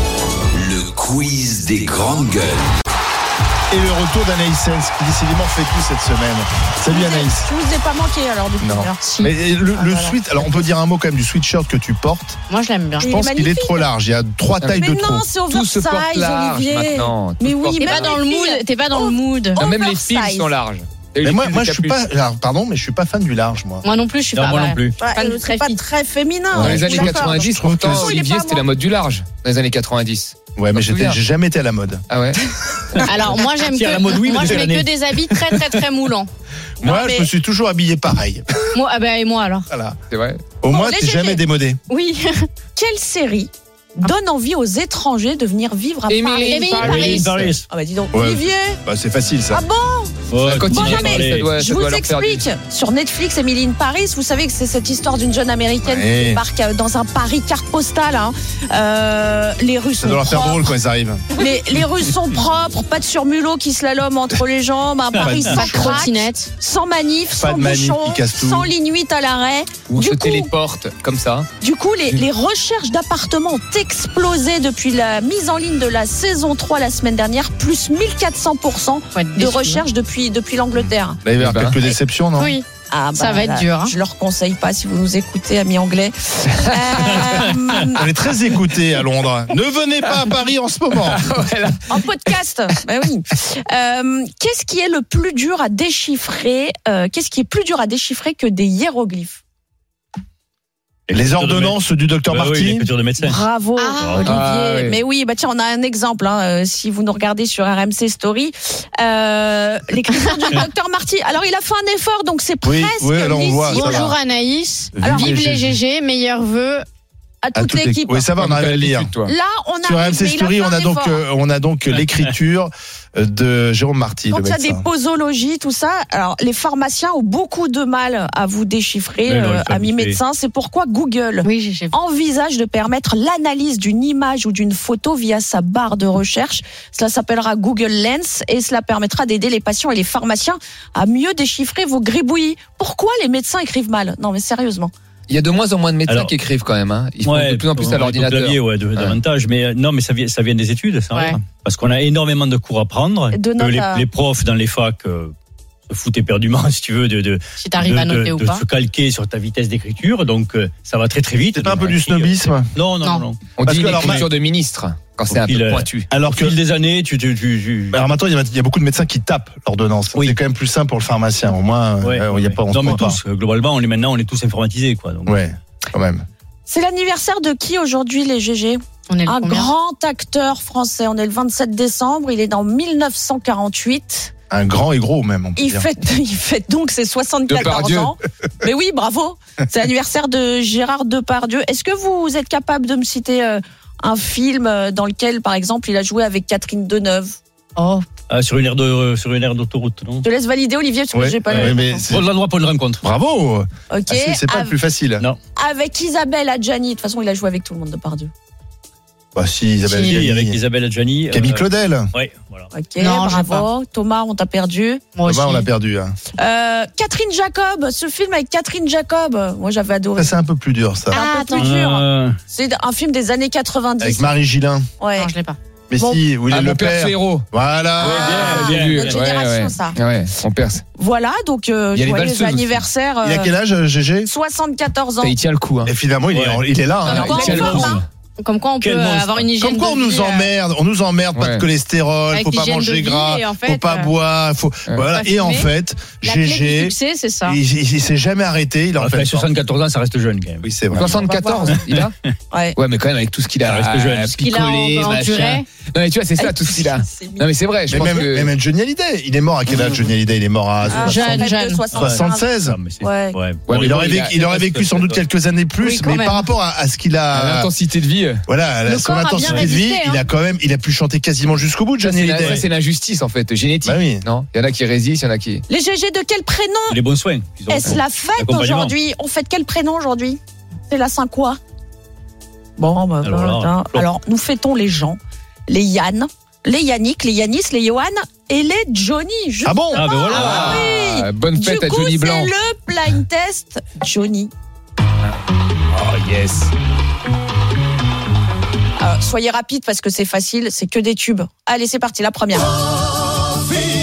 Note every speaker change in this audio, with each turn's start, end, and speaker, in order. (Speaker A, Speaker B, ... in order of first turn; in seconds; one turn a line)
Speaker A: 0.6-2.5
Speaker B: 3.7-7.5
Speaker C: 6.9-9.1
Speaker B: 8.6-12.4
Speaker D: 9.0-9.3
Speaker C: 9.6-10.2
Speaker D: 12.5-13.1
Speaker C: 13.0-13.9
Speaker B: 13.0-15.3
Speaker C: 14.6-20.5
Speaker E: 15.5-18.2
Speaker D: 17.8-19.6
Speaker E: 19.6-22.0
Speaker B: 21.2-23.8
Speaker D: 23.8-25.8
Speaker F: 24.4-24.9
Speaker C: 25.0-28.6
Speaker B: 26.6-28.1
Speaker E: 26.6-31.2
Speaker B: 30.6-32.0
Speaker E: 32.1-33.0
Speaker D: 33.0-36.3
Speaker F: 33.8-34.9
Speaker C: 36.8-37.3
Speaker B: 36.8-38.8
Speaker D: 38.7-39.7
Speaker B: 39.7-40.0
Speaker E: 40.1-40.5
Speaker B: 40.6-41.8
Speaker C: 40.7-41.4
Speaker D: 41.9-42.5
Speaker C: 42.8-48.8
Speaker E: 46.1-47.4
Speaker D: 46.4-47.4
Speaker F: 46.9-47.6
Speaker B: 48.1-49.6
Speaker C: 49.5-60.7
Speaker F: 50.3-51.5
Speaker E: 50.5-52.5
Speaker B: 55.8-56.4
Speaker B: 60.0-61.2
Speaker C: 61.3-70.5
Speaker B: 65.2-66.0
Speaker D: 65.4-66.5
Speaker B: 67.3-68.7
Speaker E: 69.9-71.5
Speaker C: 71.6-81.2
Speaker D: 79.1-79.8
Speaker B: 81.2-82.6
Speaker E: 81.4-81.8
Speaker D: 82.4-83.9
Speaker C: 82.9-88.1
Speaker B: 87.9-91.3
Speaker E: 91.0-92.3
Speaker C: 91.9-99.4
Speaker F: 101.1-101.8
Speaker B: 101.1-102.9
Speaker F: 102.3-103.4
Speaker C: 103.2-114.1
Speaker D: 103.8-104.2
Speaker E: 104.2-105.0
Speaker B: 112.6-114.2
Speaker D: 113.7-116.9
Speaker B: 115.0-115.8
Speaker C: 115.0-115.4
Speaker C: 117.4-118.3
Speaker B: 117.5-119.1
Speaker E: 118.4-119.3
Speaker C: 119.2-121.2
Speaker B: 119.8-124.8
Speaker C: 124.3-144.9
Speaker F: 129.3-130.2
Speaker D: 131.4-131.9
Speaker E: 145.3-149.2
Speaker F: 146.1-146.3
Speaker F: 147.2-155.3
Speaker D: 151.1-151.4
Speaker C: 153.3-154.1
Speaker F: 155.9-163.6
Speaker D: 157.6-158.6
Speaker B: 161.5-162.7
Speaker D: 163.0-163.3
Speaker E: 163.6-166.1
Speaker B: 163.6-164.3
Speaker F: 165.3-168.0
Speaker B: 166.1-166.6
Speaker B: 167.9-173.2
Speaker F: 172.0-175.3
Speaker B: 175.3-176.2
Speaker C: 176.7-184.3
Speaker D: 179.1-179.7
Speaker B: 184.5-185.9
Speaker C: 185.6-197.4
Speaker E: 187.5-188.1
Speaker D: 197.8-198.0
Speaker F: 198.3-200.2
Speaker C: 200.2-202.1
Speaker B: 201.1-202.3
Speaker F: 201.5-203.0
Speaker B: 203.0-205.2
Speaker C: 203.9-204.7
Speaker C: 205.6-208.3
Speaker B: 209.3-210.6
Speaker D: 209.9-210.2
Speaker F: 210.1-212.6
Speaker B: 211.3-212.1
Speaker C: 212.7-215.0
Speaker D: 213.0-213.6
Speaker D: 215.2-215.6
Speaker B: 215.2-216.2
Speaker C: 216.4-220.3
Speaker B: 220.2-221.2
Speaker C: 221.1-224.3
Speaker D: 221.1-221.7
Speaker F: 221.6-222.3
Speaker B: 224.0-224.9
Speaker C: 225.0-225.3
Speaker D: 225.2-225.6
Speaker B: 225.9-228.4
Speaker C: 225.9-226.2
Speaker E: 226.5-227.4
Speaker E: 228.0-230.8
Speaker C: 228.0-230.0
Speaker F: 228.1-229.1
Speaker C: 230.9-233.5
Speaker E: 231.9-232.8
Speaker B: 233.2-234.3
Speaker C: 234.2-235.3
Speaker E: 235.2-235.9
Speaker B: 235.8-237.4
Speaker F: 236.3-236.6
Speaker D: 237.1-240.5
Speaker C: 237.1-238.0
Speaker E: 237.2-238.0
Speaker F: 237.5-238.0
Speaker F: 238.8-239.5
Speaker B: 239.6-249.5
Speaker E: 241.3-241.6
Speaker D: 242.3-244.1
Speaker D: 245.1-245.7
Speaker D: 246.2-247.6
Speaker F: 249.0-250.7
Speaker B: 250.6-251.1
Speaker E: 250.9-252.1
Speaker C: 251.0-251.8
Speaker C: 252.5-252.8
Speaker E: 252.8-258.5
Speaker F: 253.7-254.4
Speaker D: 254.4-255.7
Speaker C: 256.4-257.5
Speaker B: 257.9-262.8
Speaker C: 260.9-262.5
Speaker D: 260.9-261.9
Speaker F: 262.8-265.2
Speaker C: 263.0-263.4
Speaker E: 263.7-264.4
Speaker B: 263.7-267.7
Speaker D: 265.8-266.5
Speaker E: 267.3-268.4
Speaker B: 268.5-272.6
Speaker D: 268.9-270.2
Speaker E: 272.0-275.6
Speaker B: 273.9-274.2
Speaker C: 275.7-277.0
Speaker F: 276.9-278.9
Speaker C: 277.7-281.6
Speaker C: 282.8-294.5
Speaker F: 283.2-284.0
Speaker B: 289.6-290.1
Speaker F: 290.0-290.8
Speaker E: 290.3-292.5
Speaker E: 295.9-296.7
Speaker C: 299.0-302.8